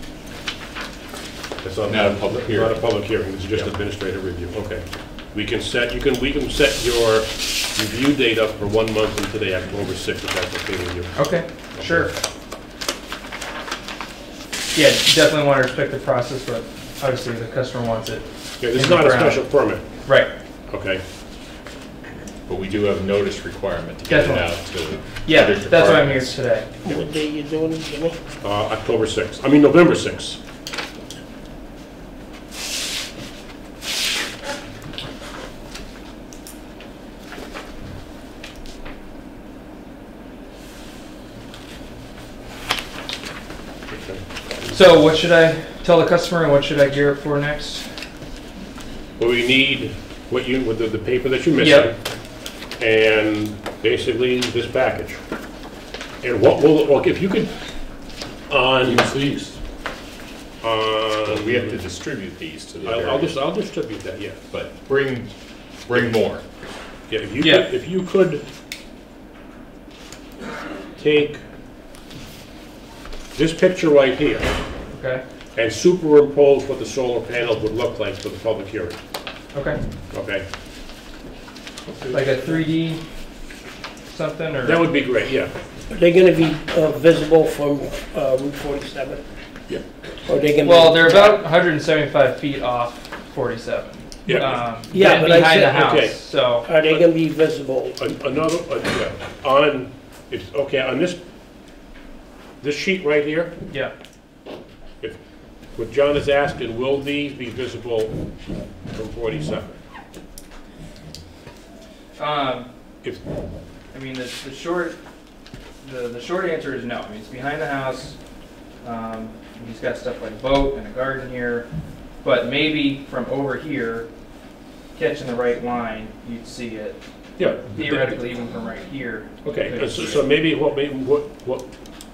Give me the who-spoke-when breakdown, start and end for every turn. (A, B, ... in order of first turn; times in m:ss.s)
0:01.6-0:11.1 A
0:01.9-0:02.9 B
0:11.2-0:12.1 C
0:11.8-0:12.1 A
0:14.7-0:20.3 C
0:18.6-0:19.9 A
0:20.7-0:21.0 A
0:22.5-0:26.4 B
0:24.1-0:24.6 C
0:25.2-0:26.7 C
0:27.0-0:28.2 D
0:28.4-0:30.4 A
0:43.9-0:44.8 A
0:44.7-0:47.9 C
0:49.2-0:52.0 A
0:51.5-0:51.9 C
0:52.8-0:55.2 A
0:56.2-0:57.5 A
0:58.5-0:59.1 A
0:58.9-0:59.6 B
1:00.6-1:01.8 A
1:01.3-1:03.3 B
1:02.8-1:04.4 A
1:04.5-1:05.3 B
1:05.8-1:06.4 B
1:07.1-1:08.4 A
1:07.4-1:07.7 C
1:11.0-1:11.4 A
1:13.4-1:14.5 A
1:14.9-1:15.2 C
1:15.6-1:19.0 A
1:19.5-1:19.8 C
1:20.1-1:20.4 A
1:21.9-1:22.6 A
1:22.1-1:23.0 C
1:24.1-1:24.8 C
1:24.6-1:25.5 A
1:25.9-1:29.2 D
1:30.3-1:30.9 D
1:30.6-1:36.7 C
1:34.2-1:34.6 A
1:34.9-1:35.6 D
1:35.5-1:36.2 A
1:36.7-1:38.0 D
1:38.0-1:41.2 A
1:42.6-1:43.5 A
1:43.7-1:43.9 C
1:45.8-1:48.1 A
1:48.9-1:49.8 A
1:52.2-1:52.7 C
1:53.9-1:55.0 C
1:55.8-1:58.2 C
1:58.8-2:01.7 C
2:02.2-2:04.1 C
2:05.0-2:10.2 C
2:07.4-2:08.2 A
2:09.4-2:11.7 A